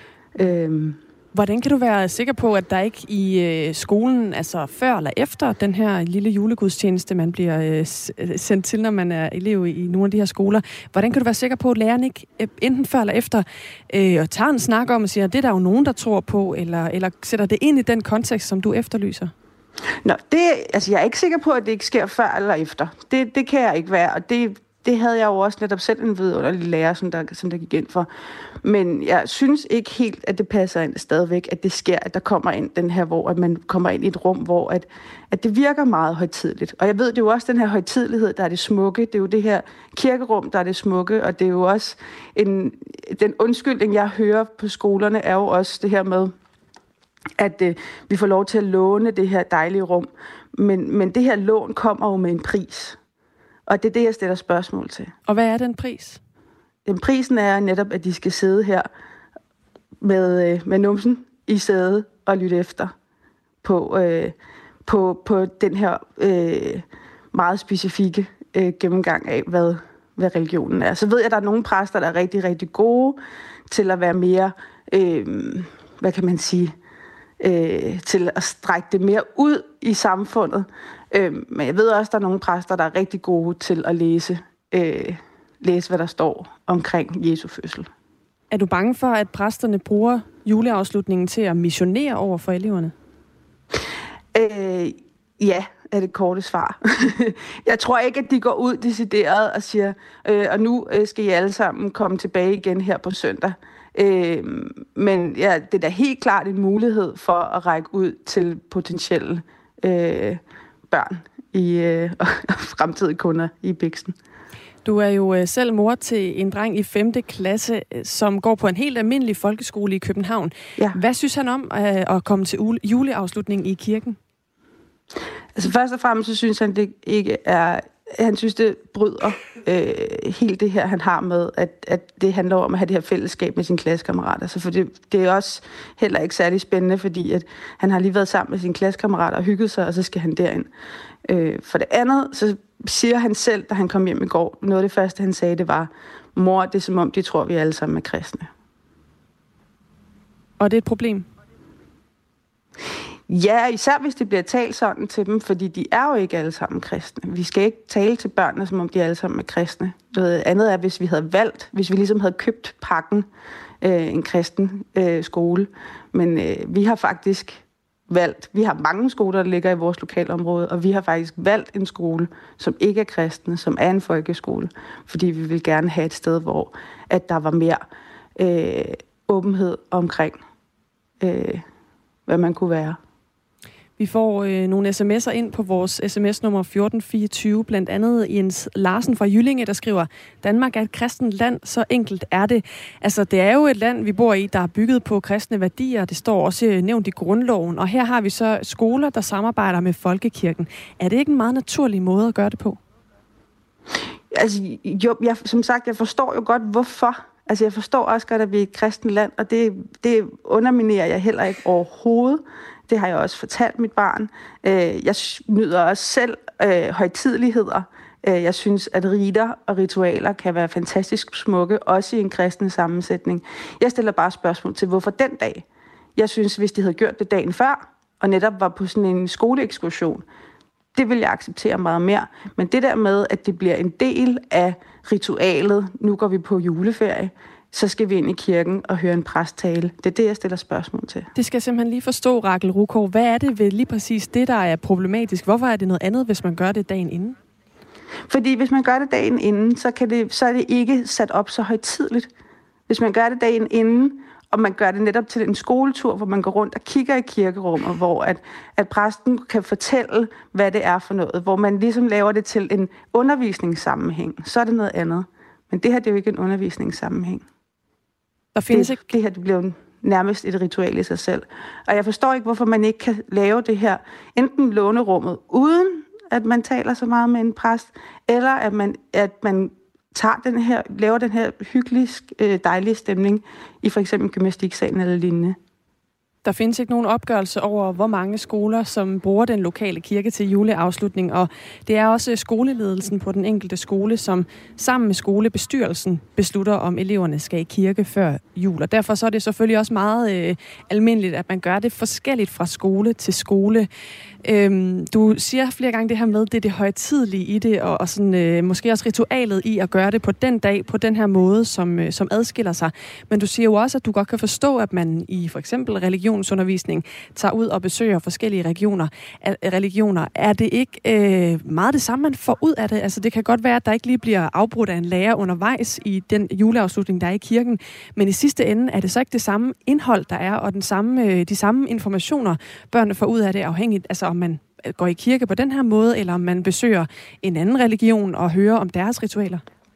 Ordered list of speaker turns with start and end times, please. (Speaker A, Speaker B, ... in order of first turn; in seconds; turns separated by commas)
Speaker A: 0.4-1.0, Speaker B: 1.3-19.3, Speaker A: 20.0-28.1, Speaker A: 28.6-46.3, Speaker A: 47.4-53.0, Speaker A: 53.7-55.1, Speaker B: 55.3-56.2, Speaker A: 56.9-58.9, Speaker A: 60.0-62.9, Speaker A: 63.6-64.3, Speaker A: 64.9-73.2, Speaker A: 73.7-76.7, Speaker A: 77.4-87.9, Speaker B: 88.5-92.9, Speaker A: 94.3-114.2, Speaker B: 114.8-124.2, Speaker A: 125.6-140.7, Speaker A: 141.3-148.5, Speaker B: 150.6-151.3, Speaker A: 153.3-163.3, Speaker A: 163.8-177.8, Speaker A: 178.4-180.4, Speaker A: 181.2-181.7, Speaker A: 182.3-183.0, Speaker B: 184.0-202.8, Speaker A: 204.3-225.6, Speaker A: 226.2-230.2, Speaker A: 230.9-241.3, Speaker B: 241.3-247.4, Speaker A: 248.3-252.3, Speaker A: 252.9-267.4, Speaker B: 268.6-269.0, Speaker A: 268.7-285.6, Speaker B: 286.4-303.9, Speaker B: 304.4-339.6